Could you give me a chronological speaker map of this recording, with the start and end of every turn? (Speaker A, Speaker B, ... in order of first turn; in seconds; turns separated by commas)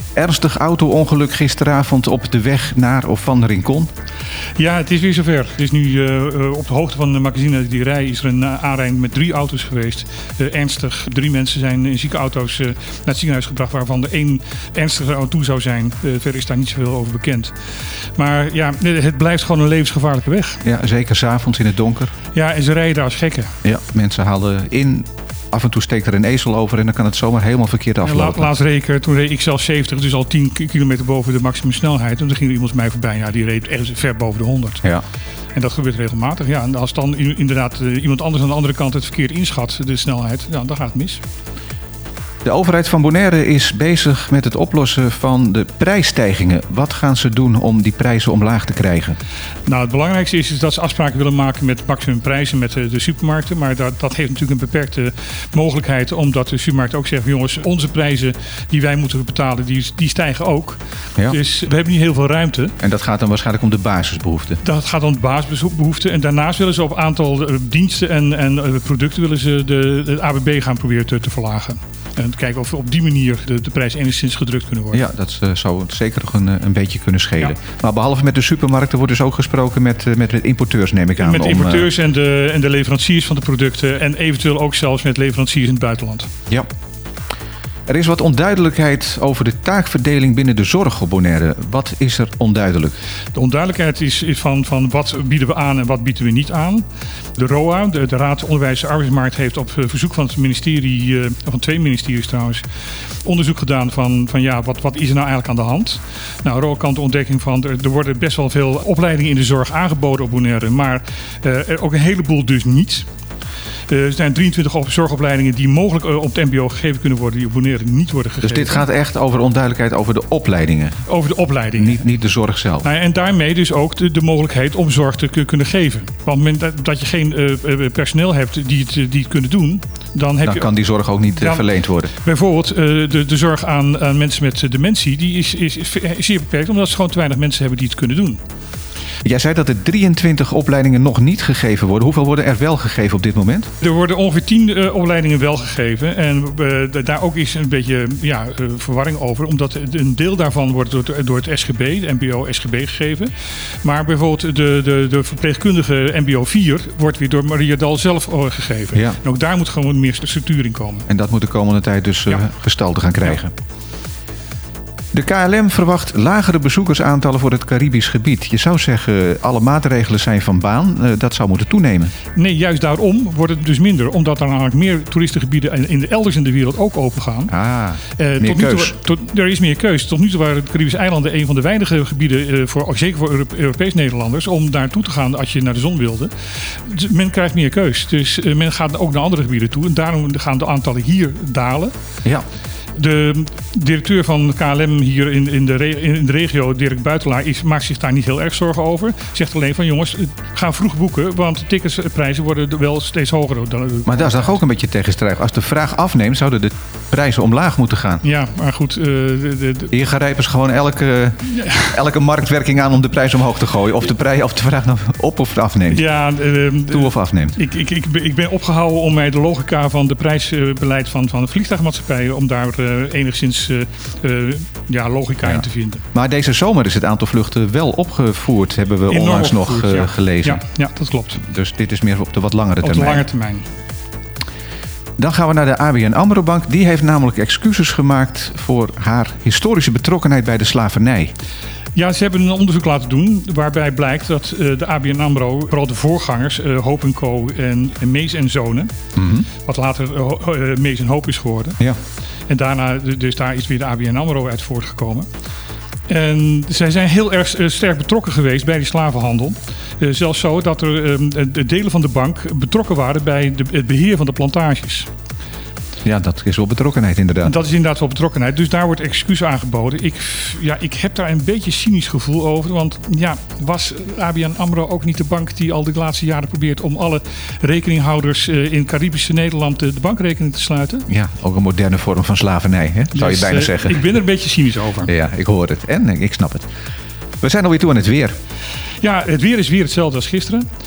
Speaker A: 0.1-3.9, Speaker B: 4.6-17.5, Speaker B: 18.2-20.6, Speaker A: 20.6-22.1, Speaker B: 22.3-23.5, Speaker A: 23.6-28.5, Speaker B: 28.0-34.8, Speaker B: 35.5-41.2, Speaker A: 42.4-49.2, Speaker B: 49.7-62.8, Speaker A: 62.8-64.6, Speaker B: 64.6-75.0, Speaker A: 74.9-81.9, Speaker B: 81.2-86.3, Speaker A: 87.9-93.0, Speaker B: 93.3-96.8, Speaker B: 97.4-102.7, Speaker B: 103.2-113.1, Speaker B: 113.9-118.8, Speaker A: 118.4-121.0, Speaker B: 121.1-122.1, Speaker A: 121.8-122.9, Speaker B: 122.8-130.7, Speaker A: 130.4-132.1, Speaker B: 131.3-138.4, Speaker A: 139.2-143.7, Speaker B: 143.8-153.3, Speaker B: 153.8-161.1, Speaker A: 161.1-163.5, Speaker A: 165.1-172.1, Speaker B: 172.3-177.5, Speaker A: 177.5-178.9, Speaker B: 178.2-191.9, Speaker B: 192.9-204.6, Speaker A: 204.1-208.2, Speaker B: 208.2-209.9, Speaker A: 209.9-216.0, Speaker B: 215.9-226.1, Speaker A: 216.9-217.6, Speaker A: 226.1-230.6, Speaker B: 229.1-231.4, Speaker A: 231.4-233.2, Speaker B: 232.8-233.7, Speaker A: 235.2-241.3, Speaker B: 242.0-248.9, Speaker A: 249.2-249.5, Speaker B: 249.6-251.8, Speaker B: 252.5-255.3, Speaker B: 256.1-265.1, Speaker A: 266.0-267.5, Speaker B: 267.4-281.1, Speaker A: 281.1-284.0, Speaker B: 283.1-285.1, Speaker A: 285.1-286.6, Speaker A: 287.4-288.3, Speaker B: 289.0-290.7